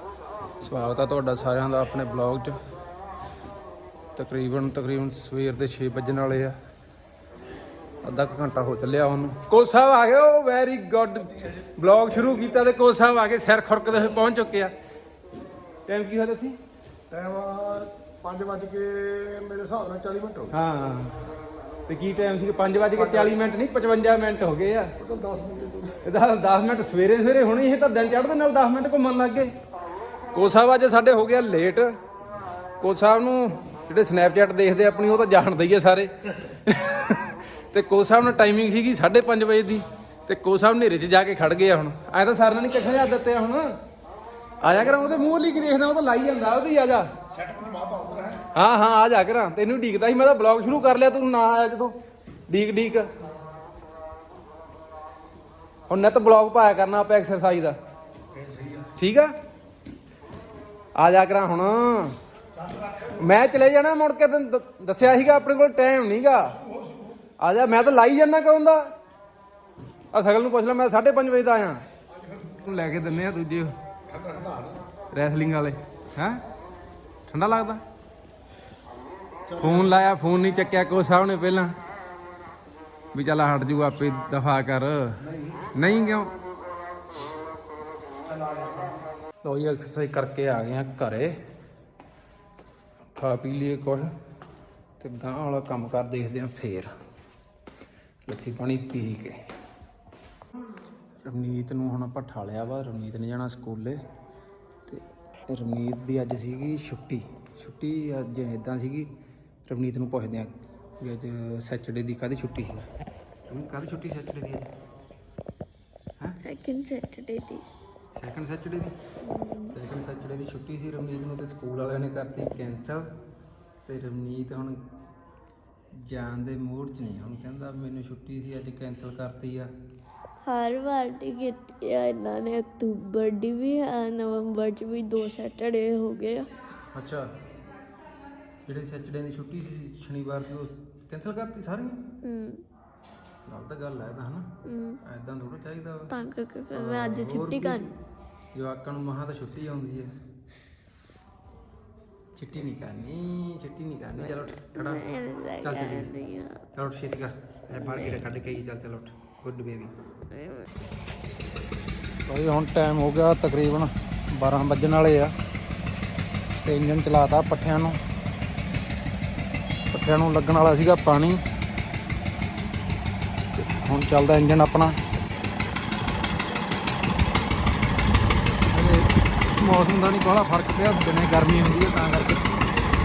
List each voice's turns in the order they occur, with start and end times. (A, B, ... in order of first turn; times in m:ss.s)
0:00.6-0:02.6 A
0:04.2-0:06.6 A
0:08.0-0:14.8 A
0:15.9-0:16.6 A
0:17.1-0:20.5 B
0:20.5-0:21.2 A
0:21.9-0:24.9 A
0:23.0-0:23.3 B
0:25.0-0:26.0 B
0:26.0-0:29.5 A
0:30.3-0:32.0 A
0:32.8-0:43.8 A
0:44.6-0:47.1 A
0:47.4-0:48.5 B
0:48.5-0:52.0 A
0:52.5-0:53.1 A
0:55.9-0:57.8 A
0:58.8-0:59.3 A
1:01.0-1:02.2 A
1:03.0-1:06.6 A
1:07.4-1:08.9 A
1:10.1-1:11.8 A
1:12.4-1:13.8 A
1:14.1-1:14.8 B
1:15.1-1:16.4 A
1:17.3-1:17.8 A
1:19.5-1:19.9 B
1:19.5-1:21.8 A
1:23.1-1:26.3 A
1:29.4-1:31.4 A
1:33.2-1:34.1 A
1:35.0-1:36.9 A
1:38.2-1:39.4 A
1:41.2-1:44.0 A
1:44.9-1:49.1 A
1:49.7-1:52.9 A
1:53.5-1:54.7 A
1:56.4-1:57.6 C
1:58.1-1:59.0 A
1:59.2-1:59.8 C
1:59.7-2:03.1 A
2:03.8-2:04.8 A
2:05.9-2:09.7 A
2:10.4-2:16.5 C
2:16.9-2:17.3 A
2:18.6-2:22.0 A
2:22.2-2:22.6 C
2:23.5-2:26.2 A
2:24.6-2:25.0 C
2:26.1-2:27.9 C
2:26.8-2:27.9 A
2:28.5-2:30.2 A
2:32.4-2:35.1 A
2:34.4-2:36.6 C
2:35.6-2:36.1 A
2:36.7-2:40.0 A
2:37.9-2:38.3 C
2:42.3-2:45.3 A
2:46.5-2:48.0 A
2:49.9-2:51.4 A
2:53.6-2:55.0 A
2:58.7-3:02.6 A